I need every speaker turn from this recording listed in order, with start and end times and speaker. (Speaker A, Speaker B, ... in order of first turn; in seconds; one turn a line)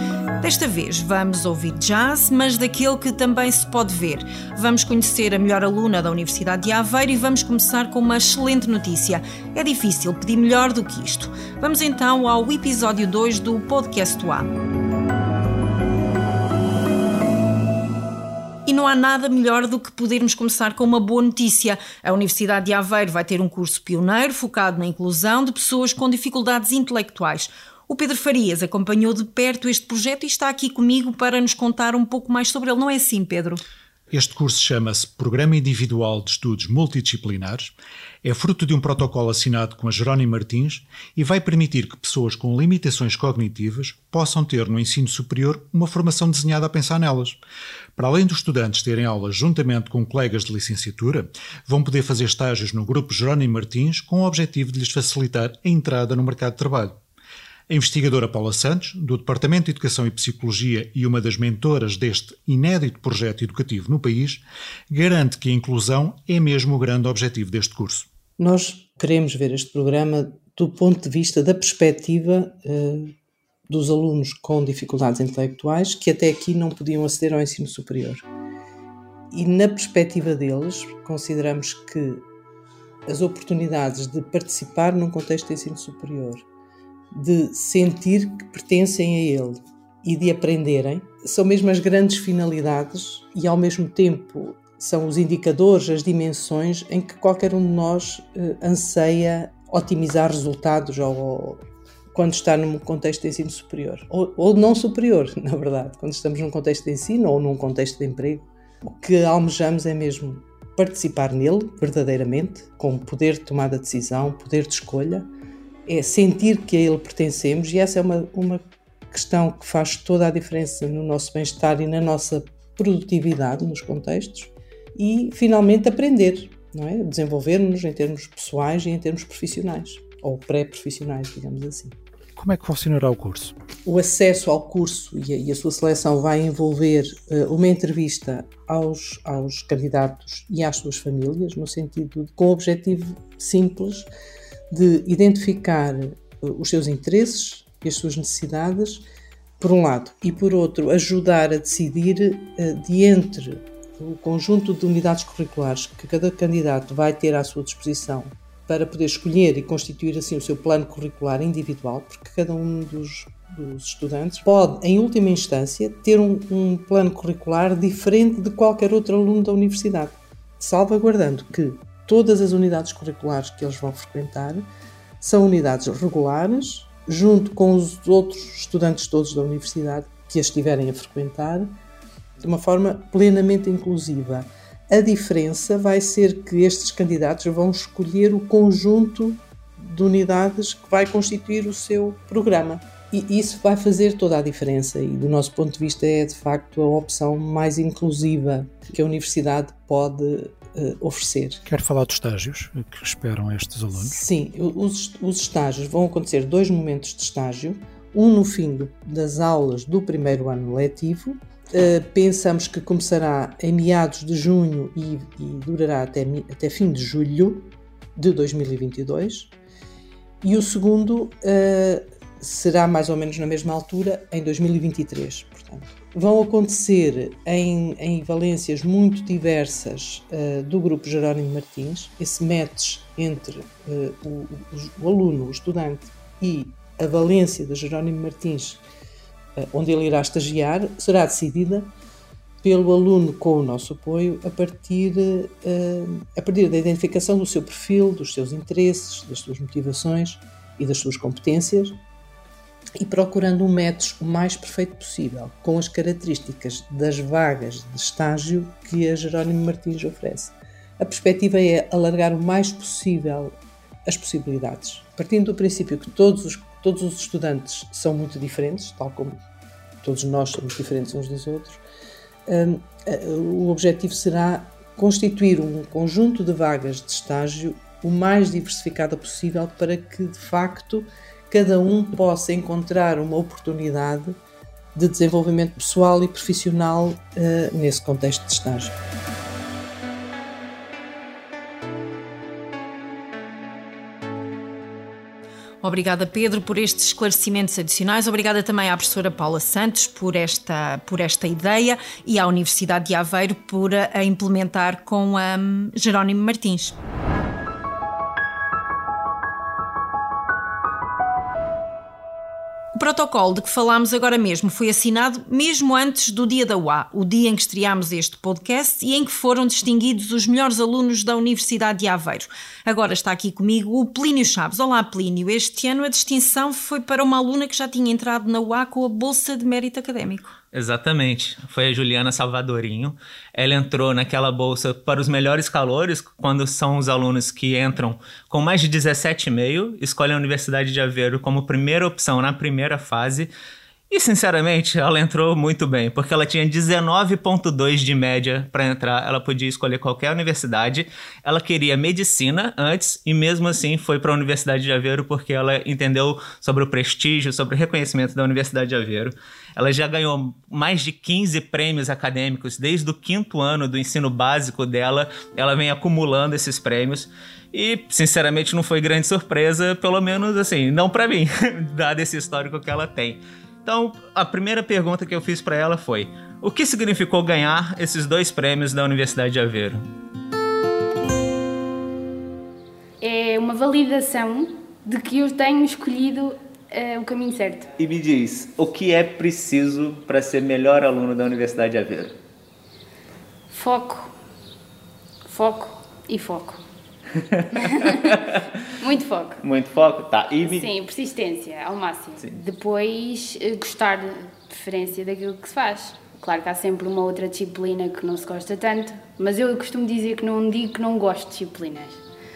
Speaker A: 0.4-14.5
Speaker A: 18.6-33.6
Speaker B: 34.1-47.4
Speaker B: 48.0-57.0
Speaker B: 57.7-68.1
Speaker C: 68.4-73.1
Speaker C: 73.7-78.2
Speaker C: 79.3-82.2
Speaker C: 83.1-86.4
Speaker C: 87.1-101.6
Speaker C: 102.1-115.3
Speaker C: 115.9-118.6
Speaker C: 119.1-131.9
Speaker B: 132.4-133.5
Speaker C: 133.8-144.1
Speaker C: 144.7-149.0
Speaker C: 149.6-174.6
Speaker C: 175.2-181.7
Speaker C: 182.4-201.6
Speaker B: 201.7-204.2
Speaker C: 203.9-219.5
Speaker C: 220.4-238.8
Speaker C: 239.6-241.9
Speaker C: 242.6-251.9
Speaker C: 253.0-269.3
Speaker C: 270.0-271.8
Speaker C: 272.5-284.4
Speaker C: 284.9-288.9
Speaker A: 295.8-307.0
Speaker A: 312.9-330.6
Speaker D: 330.7-343.5
Speaker D: 344.1-380.0
Speaker E: 383.2-387.9
Speaker D: 388.0-392.3
Speaker E: 393.7-394.3
Speaker E: 395.5-396.8
Speaker E: 397.7-398.2
Speaker D: 398.1-398.6
Speaker E: 399.0-399.6
Speaker D: 399.6-400.9
Speaker E: 400.6-412.2